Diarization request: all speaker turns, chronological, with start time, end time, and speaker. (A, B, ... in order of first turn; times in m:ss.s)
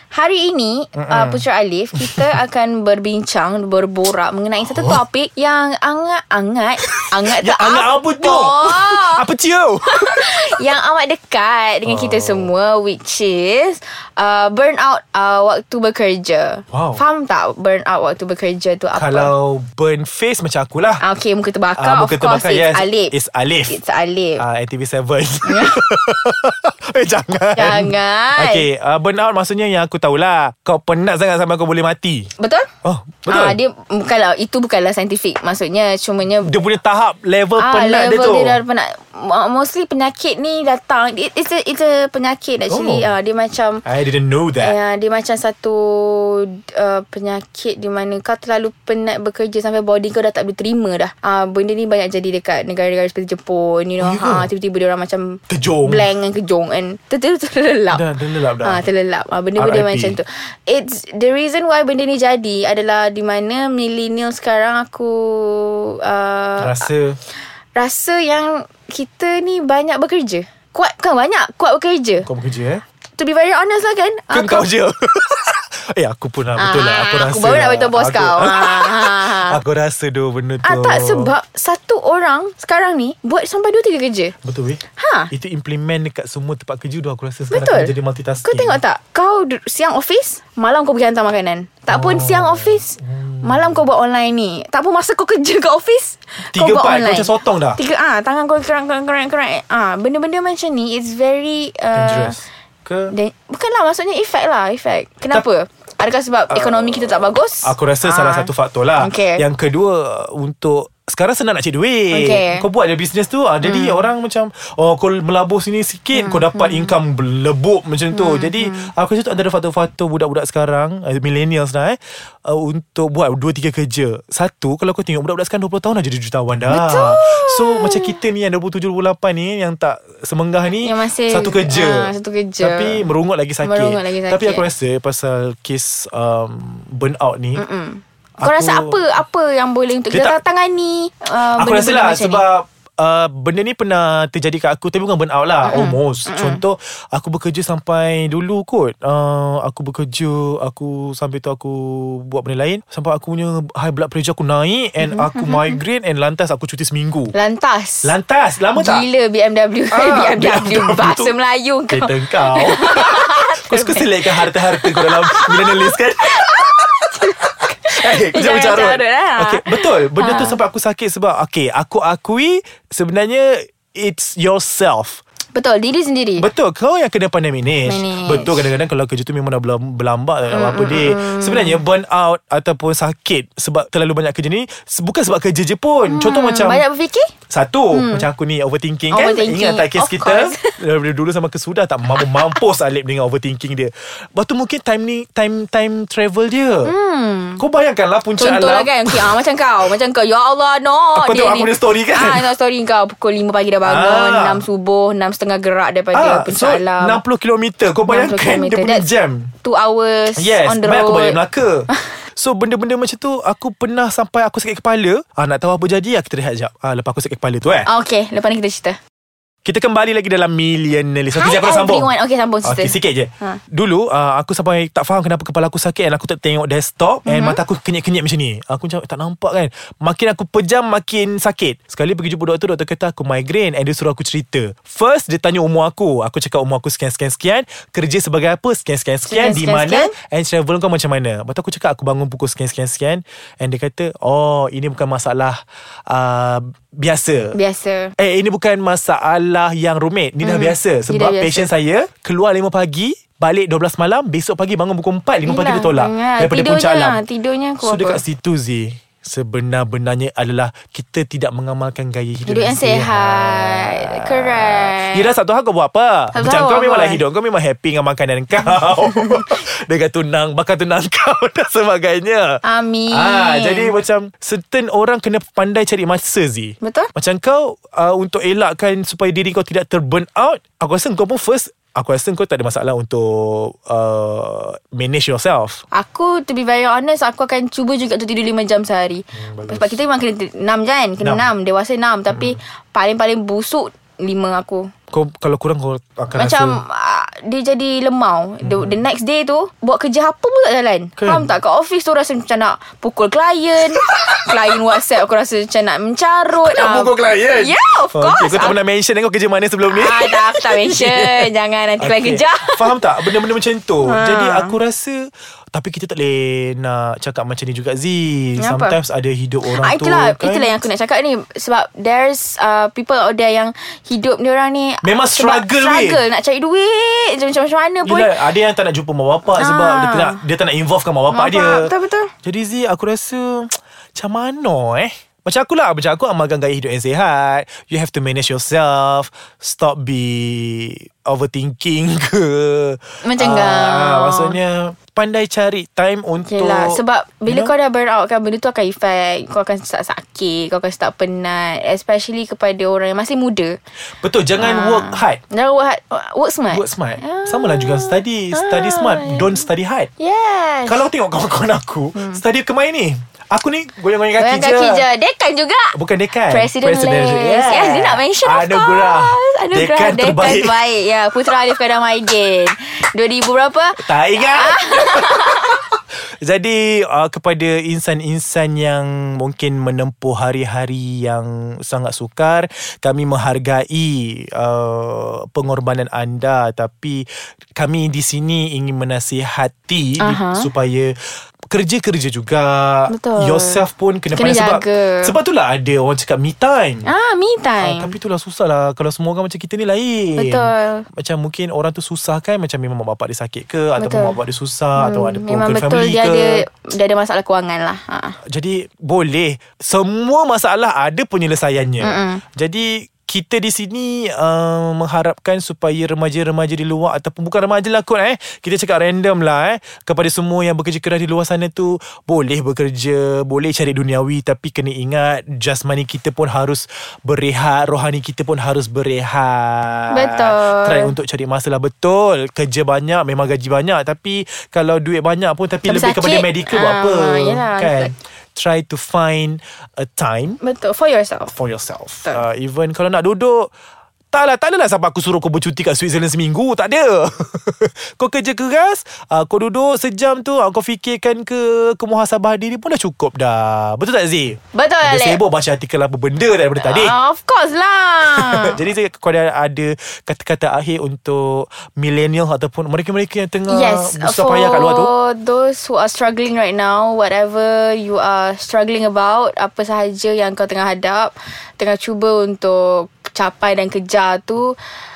0:00.1-0:09.2 A
0:01.0-0:01.4 B
0:02.0-0:02.4 B
0:04.7-0:05.0 B
0:06.8-0:10.5 B
0:09.9-0:19.3 A
0:11.9-0:12.5 B
0:16.7-0:17.0 B
0:19.0-0:21.0 B
0:21.0-0:23.1 A
0:21.8-0:23.8 B
0:23.7-0:24.4 A
0:24.4-0:32.3 B
0:25.4-0:25.8 A
0:27.6-0:28.7 A
0:32.4-0:32.7 A
0:32.8-0:33.6 B
0:33.3-0:36.6 A
0:36.4-0:38.6 B
0:37.6-0:43.8 A
0:42.7-0:43.1 B
0:43.8-0:44.8 B
0:44.6-0:58.0 A
0:54.0-0:54.5 B
0:55.5-0:56.0 B
0:57.9-0:58.8 B
0:58.6-1:06.9 A
0:59.6-1:00.2 B
1:06.6-1:07.2 B
1:07.7-1:12.3 A
1:12.2-1:12.8 B
1:13.2-1:14.6 A
1:14.3-1:21.3 B
1:16.6-1:19.6 A
1:20.6-1:24.3 A
1:24.4-1:28.8 B
1:25.0-1:25.3 A
1:27.5-1:27.9 A
1:28.4-1:42.4 A
1:31.9-1:33.8 B
1:36.4-1:37.8 B
1:41.9-1:43.2 B
1:43.1-1:49.4 A
1:46.5-2:17.6 B
1:52.1-1:52.6 A
1:53.6-1:54.1 A
1:56.2-1:57.0 A
1:58.1-1:58.9 A
2:06.7-2:08.2 A
2:10.8-2:13.0 A
2:13.6-2:14.6 A
2:17.6-2:22.4 A
2:18.4-2:19.1 B
2:20.1-2:20.4 B
2:21.4-2:37.4 B
2:25.6-2:26.6 A
2:35.0-2:35.8 A
2:37.3-2:38.1 A
2:38.0-2:39.0 B
2:38.8-2:50.6 A
2:39.9-2:41.3 B
2:41.9-2:55.2 B
2:55.5-2:56.5 A
2:56.4-3:06.8 B
2:57.8-2:58.7 A
3:00.5-3:01.8 A
3:06.1-3:07.3 A
3:07.5-3:16.9 B
3:07.9-3:08.3 A
3:09.1-3:10.8 A
3:12.2-3:12.6 A
3:16.8-3:17.6 A
3:17.6-3:19.4 B
3:18.4-3:27.2 A
3:21.2-3:22.5 B
3:23.8-3:24.7 B
3:26.1-3:29.5 B
3:28.1-3:29.1 A
3:29.6-3:32.1 A
3:30.4-3:37.9 B
3:37.8-3:39.0 A
3:39.6-3:42.1 B
3:41.4-3:43.6 A
3:42.6-4:07.6 B
3:47.3-3:47.6 A
3:59.3-4:00.1 A
4:07.5-4:08.1 A
4:08.2-4:17.2 B
4:10.4-4:11.7 A
4:15.4-4:18.2 A
4:17.8-4:45.8 B
4:22.5-4:25.3 A
4:26.3-4:27.2 A
4:28.7-4:29.5 A
4:32.6-4:33.9 A
4:36.8-4:37.1 A
4:45.9-4:54.9 A
4:49.3-4:50.0 B
4:51.2-4:51.5 B
4:52.3-4:52.6 B
4:55.1-4:56.8 B
4:56.4-5:08.8 A
4:58.6-4:59.0 B
5:01.2-5:01.5 B
5:03.9-5:04.7 B
5:06.6-5:11.5 B
5:09.9-5:13.0 A
5:12.0-5:20.7 B
5:14.0-5:14.8 A
5:18.6-5:19.0 A
5:19.7-5:28.4 A
5:25.0-5:26.2 B
5:28.0-5:31.9 B
5:29.6-5:30.4 A
5:31.3-5:32.3 A
5:32.4-5:47.7 B
5:43.2-5:44.6 A
5:46.5-5:53.8 A
5:54.2-5:55.4 B
5:54.6-5:59.6 A
5:56.7-6:00.1 B
6:00.2-6:01.1 A
6:00.8-6:05.0 B
6:02.2-6:02.4 A
6:04.4-6:06.0 A
6:05.9-6:10.8 B
6:06.5-6:15.8 A
6:14.0-6:15.8 B
6:16.4-6:31.2 B
6:30.2-6:30.7 A
6:31.7-6:37.1 B
6:33.1-6:35.4 A
6:37.0-6:38.1 A
6:37.8-6:46.6 B
6:40.4-6:41.0 A
6:44.0-6:44.4 A
6:45.0-6:48.4 A
6:48.4-7:20.6 B
6:52.0-6:52.4 A
7:10.1-7:11.1 A
7:15.8-7:18.1 A
7:20.6-7:21.5 A
7:21.5-7:23.7 B
7:24.3-7:37.2 B
7:34.7-7:35.4 A
7:36.8-7:38.8 A
7:38.3-7:45.1 B
7:43.7-7:54.8 A